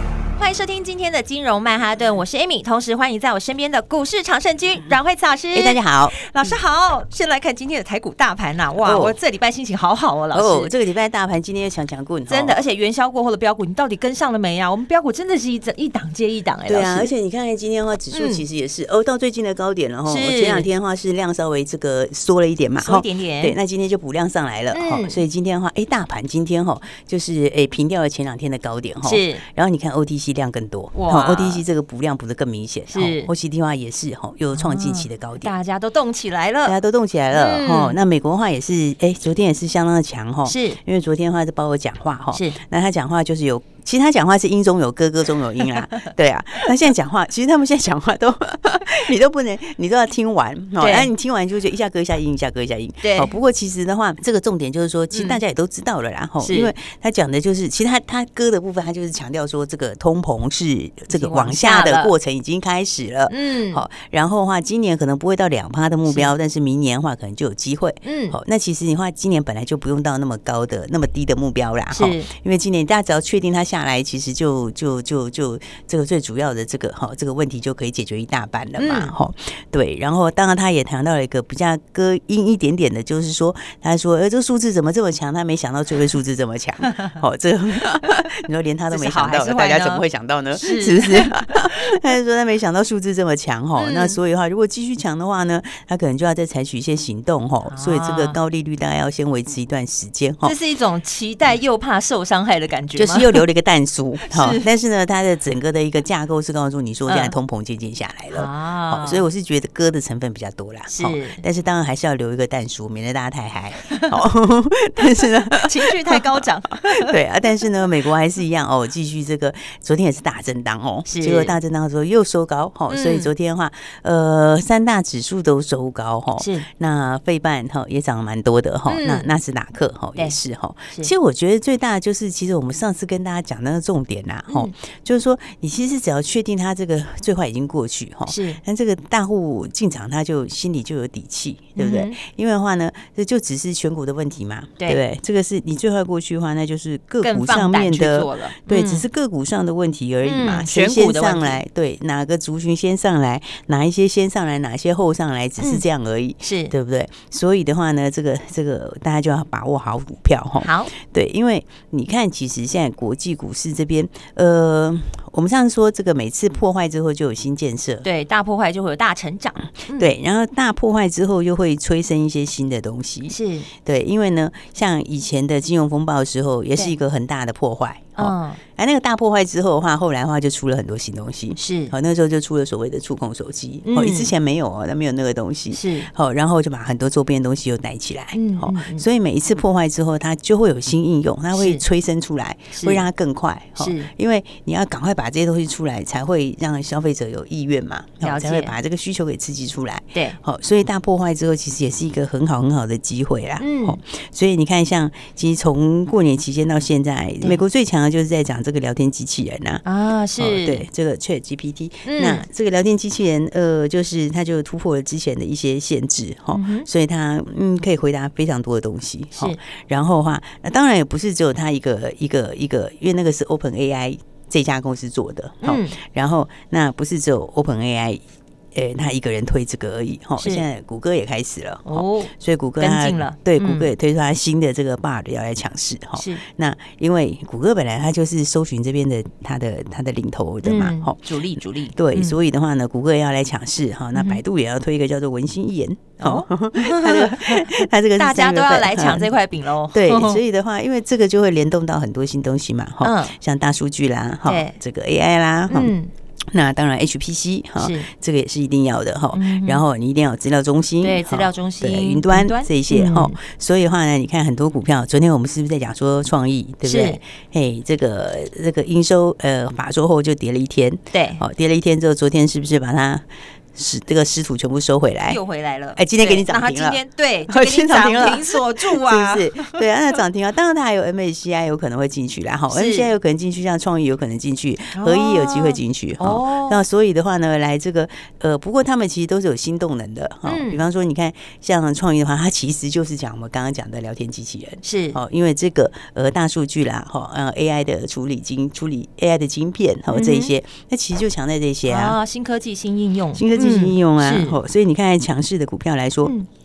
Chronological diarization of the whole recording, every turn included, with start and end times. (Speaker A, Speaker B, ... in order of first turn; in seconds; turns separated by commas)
Speaker A: 0.4-10.7, Speaker B: 5.5-6.5, Speaker B: 8.8-9.2, Speaker B: 10.3-12.6, Speaker A: 12.3-17.1, Speaker B: 16.7-35.5, Speaker A: 18.1-18.4, Speaker A: 20.1-20.7, Speaker A: 22.8-23.6, Speaker A: 24.7-25.2, Speaker A: 29.0-29.4, Speaker A: 30.9-31.6, Speaker A: 32.9-33.3, Speaker A: 34.6-36.8, Speaker B: 36.7-100.6, Speaker A: 37.3-38.0, Speaker A: 40.5-40.8, Speaker A: 42.3-42.6, Speaker A: 50.8-51.1, Speaker A: 53.0-53.3, Speaker A: 55.1-55.4, Speaker A: 56.4-56.7, Speaker A: 61.1-62.1, Speaker A: 63.3-63.8, Speaker A: 66.1-66.3, Speaker A: 68.0-68.4, Speaker A: 71.9-72.3, Speaker A: 78.8-79.1, Speaker A: 88.9-91.9, Speaker A: 93.8-94.2, Speaker A: 97.7-98.4, Speaker A: 100.4-103.4, Speaker B: 103.0-116.2, Speaker A: 104.3-104.7, Speaker A: 107.1-107.3, Speaker A: 108.3-109.3, Speaker A: 110.9-111.4, Speaker A: 115.2-117.2, Speaker B: 116.8-168.1, Speaker A: 121.1-121.6, Speaker A: 122.9-123.3, Speaker A: 126.4-126.7, Speaker A: 128.9-129.3, Speaker A: 134.5-134.7, Speaker A: 138.3-138.6, Speaker A: 141.8-142.2, Speaker A: 147.2-149.1, Speaker A: 150.2-151.6, Speaker A: 155.6-155.8, Speaker A: 156.4-156.7, Speaker A: 160.6-160.9, Speaker A: 168.0-170.1, Speaker B: 170.0-209.8, Speaker A: 173.3-173.7, Speaker A: 178.2-178.6, Speaker A: 181.6-181.9, Speaker A: 183.8-184.3, Speaker A: 185.7-186.1, Speaker A: 188.3-189.1, Speaker A: 191.5-191.8, Speaker A: 192.7-193.1, Speaker A: 193.8-194.1, Speaker A: 198.2-198.8, Speaker A: 200.1-200.4, Speaker A: 203.6-204.0, Speaker A: 209.8-210.9, Speaker B: 210.4-228.2, Speaker A: 212.1-212.4, Speaker A: 216.5-216.9, Speaker A: 225.6-226.0, Speaker B: 228.7-241.3, Speaker A: 230.4-230.7, Speaker A: 231.9-233.9, Speaker A: 236.2-236.4, Speaker A: 240.6-242.4, Speaker B: 241.9-249.3, Speaker A: 244.2-244.4, Speaker A: 246.2-250.4, Speaker B: 249.9-255.9, Speaker A: 253.0-253.3, Speaker A: 254.4-254.8, Speaker A: 255.7-256.1, Speaker B: 256.5-275.4, Speaker A: 257.8-258.1, Speaker A: 259.3-259.8, Speaker A: 261.0-263.4, Speaker A: 266.8-267.2, Speaker A: 271.1-271.4, Speaker A: 275.3-279.8, Speaker B: 275.9-302.2, Speaker A: 282.7-283.1, Speaker A: 284.9-286.8, Speaker A: 290.5-290.8, Speaker A: 294.8-295.2, Speaker A: 300.1-300.5, Speaker A: 301.9-304.6, Speaker B: 303.4-306.3